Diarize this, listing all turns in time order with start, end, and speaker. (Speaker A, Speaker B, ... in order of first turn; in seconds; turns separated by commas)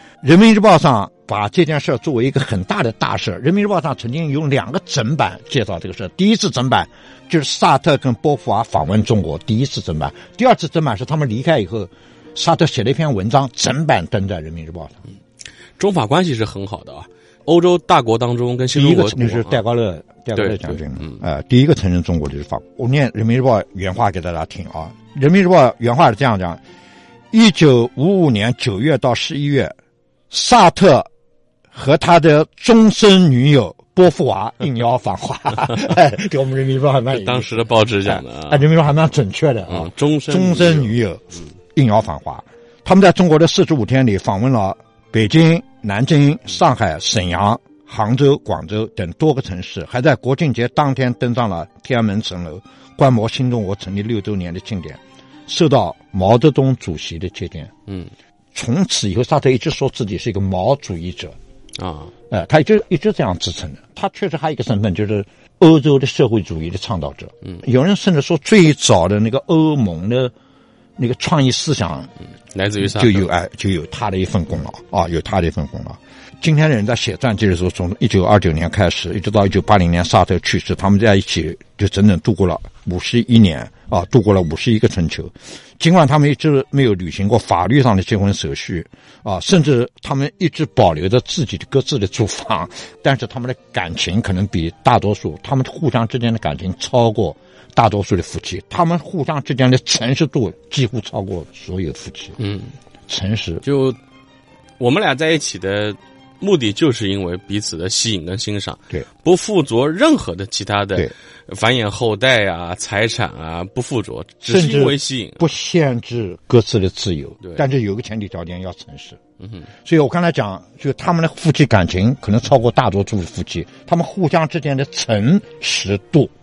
Speaker A: 0.2-15.0, Speaker B: 15.8-19.6, Speaker A: 18.7-26.6, Speaker B: 20.4-21.2, Speaker A: 27.3-29.7, Speaker A: 30.3-31.1, Speaker A: 31.7-57.7, Speaker B: 37.1-38.7, Speaker B: 39.7-41.0, Speaker A: 58.5-61.4, Speaker B: 61.8-62.1, Speaker A: 62.3-70.3, Speaker A: 71.0-72.1, Speaker B: 72.5-73.3, Speaker A: 72.8-102.4, Speaker B: 102.4-102.8, Speaker A: 103.1-103.6, Speaker B: 103.6-104.0, Speaker B: 104.8-115.5, Speaker A: 114.4-119.2, Speaker B: 119.4-119.7, Speaker A: 119.8-126.3